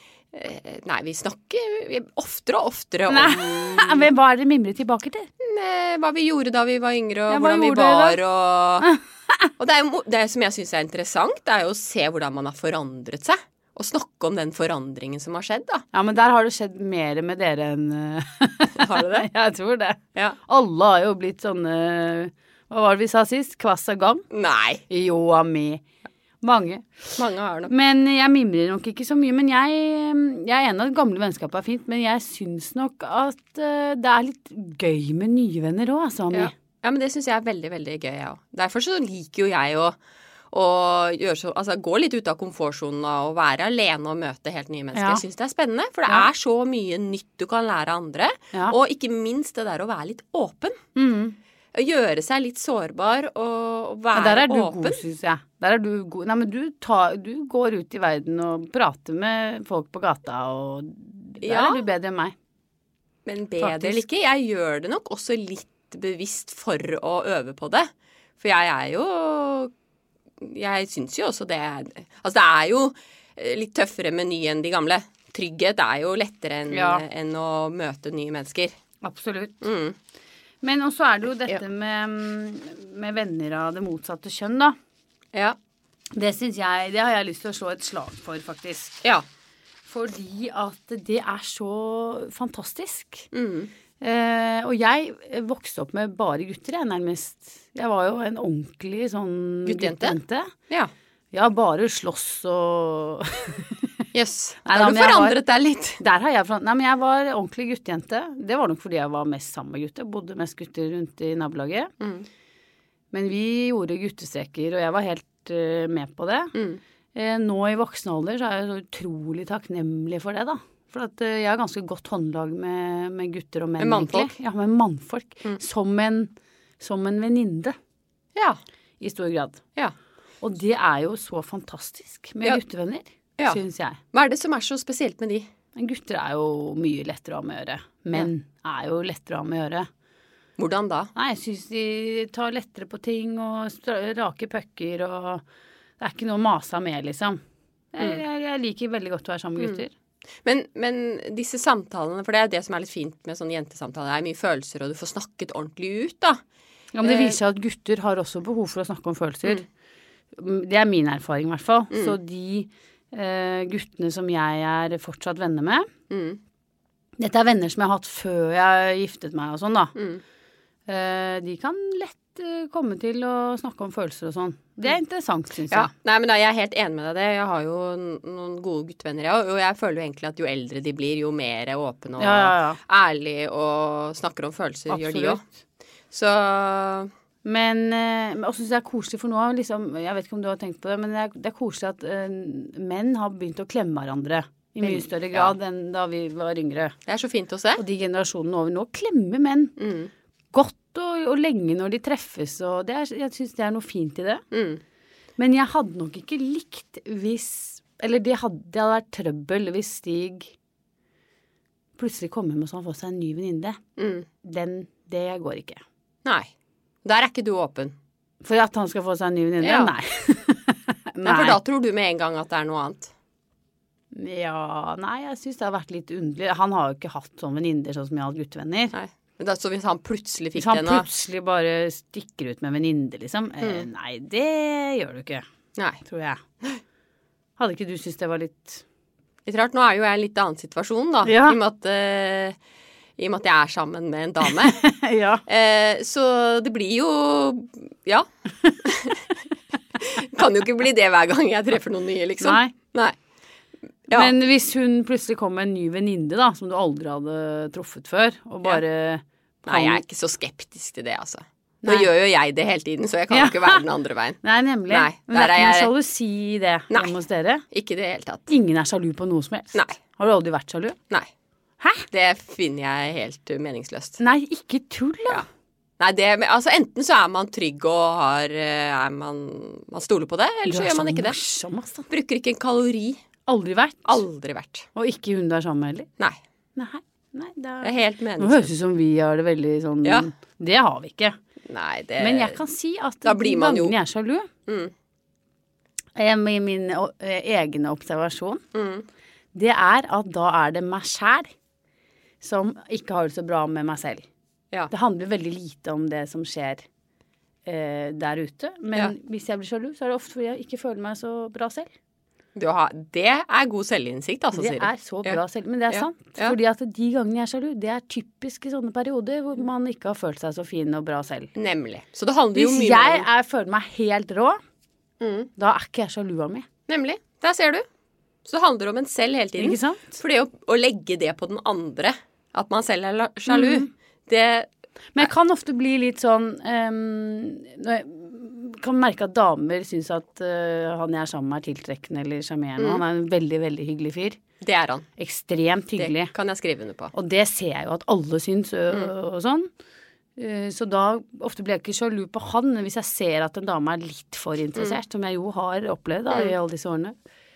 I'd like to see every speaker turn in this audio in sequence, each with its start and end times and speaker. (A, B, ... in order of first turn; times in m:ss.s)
0:00.3-0:04.1 A
0:03.1-0:05.3 B
0:05.4-0:08.9 A
0:07.3-0:08.2 B
0:08.8-0:09.5 B
0:09.6-0:15.8 A
0:15.9-0:24.2 B
0:18.7-0:19.3 A
0:24.3-0:24.8 A
0:24.9-0:25.8 B
0:26.4-0:36.5 B
0:27.2-0:27.7 A
0:36.3-0:40.0 A
0:40.5-0:50.8 A
0:44.9-0:45.2 B
0:51.0-0:51.4 B
0:51.7-0:55.0 A
0:54.1-1:02.3 B
1:01.4-1:01.8 A
1:03.2-1:09.7 A
1:03.6-1:04.0 B
1:10.4-1:18.8 A
1:16.7-1:17.0 B
1:19.0-1:19.6 B
1:19.6-1:20.0 A
1:20.6-1:24.8 B
1:26.2-1:29.0 B
1:29.9-1:33.3 B
1:33.3-1:33.7 A
1:34.0-1:40.5 B
1:39.6-1:40.2 A
1:41.3-1:43.9 B
1:44.1-1:46.0 A
1:44.6-1:45.4 B
1:46.0-1:51.9 B
1:52.0-1:52.2 A
1:53.1-1:56.5 B
1:56.5-1:56.8 A
1:57.1-2:07.8 B
2:03.8-2:04.3 A
2:09.0-2:09.6 B
2:10.4-2:14.0 B
2:14.1-2:15.5 A
2:15.8-2:19.9 B
2:20.6-2:21.1 A
2:21.2-2:25.4 B
2:26.0-2:27.4 B
2:27.9-2:29.9 B
2:30.4-2:36.4 A
2:36.9-2:39.6 B
2:37.0-2:37.4 A
2:40.3-2:45.9 B
2:41.9-2:42.2 A
2:46.1-2:46.4 A
2:47.2-2:49.9 B
2:49.9-2:50.2 A
2:50.9-2:55.9 B
2:55.7-3:05.4 A
3:02.2-3:02.8 B
3:04.9-3:05.4 B
3:06.1-3:07.1 A
3:07.4-3:16.9 B
3:14.8-3:15.5 A
3:17.0-3:17.8 A
3:17.8-3:19.7 B
3:19.8-3:20.1 A
3:20.5-3:24.4 B
3:24.5-3:24.8 A
3:25.4-3:30.5 B
3:32.0-3:33.8 B
3:34.0-3:34.3 A
3:34.4-3:35.8 B
3:36.2-3:36.5 A
3:37.0-3:38.0 A
3:38.4-3:41.6 B
3:39.6-3:39.9 A
3:41.2-3:43.1 A
3:44.1-3:48.9 B
3:48.9-3:51.0 A
3:50.5-3:55.4 B
3:55.8-3:56.0 A
3:56.0-3:56.4 B
3:57.6-3:58.8 B
3:59.4-4:02.6 A
4:01.2-4:01.6 B
4:03.2-4:04.8 A
4:04.6-4:05.4 B
4:05.4-4:08.3 A
4:08.8-4:09.3 A
4:10.0-4:13.2 A
4:12.4-4:12.7 B
4:14.1-4:14.3 A
4:14.1-4:20.0 B
4:19.6-4:25.9 A
4:21.8-4:22.1 B
4:23.3-4:23.8 B
4:24.4-4:27.6 B
4:27.7-4:28.5 A
4:28.5-4:31.0 B
4:31.8-4:32.0 B
4:32.1-4:34.2 A
4:34.2-4:35.4 B
4:36.0-4:41.4 A
4:40.6-4:42.1 B
4:42.1-4:43.2 A
4:43.4-4:44.2 B
4:44.0-4:44.9 A
4:44.9-4:46.1 B
4:46.8-4:51.4 B
4:47.8-4:48.7 A
4:51.6-4:52.6 A
4:52.2-4:54.5 B
4:53.2-4:53.9 A
4:54.7-4:54.9 A
4:56.2-4:58.6 B
4:58.7-4:59.0 A
4:59.5-5:01.5 B
5:02.4-5:04.3 B
5:04.9-5:06.8 B
5:07.6-5:11.9 B
5:12.5-5:15.4 A
5:14.5-5:21.5 B
5:15.9-5:16.6 A
5:21.5-5:23.3 A
5:22.5-5:24.6 B
5:25.2-5:25.5 A
5:25.6-5:26.7 B
5:26.9-5:27.8 A
5:28.4-5:35.3 A
5:29.6-5:30.2 B
5:33.5-5:33.9 B
5:35.1-5:44.4 B
5:42.8-5:43.0 A
5:44.6-5:45.0 A
5:45.2-5:46.3 B
5:46.0-5:47.1 A
5:47.1-5:49.7 B
5:50.4-5:57.2 B
5:56.3-5:56.5 A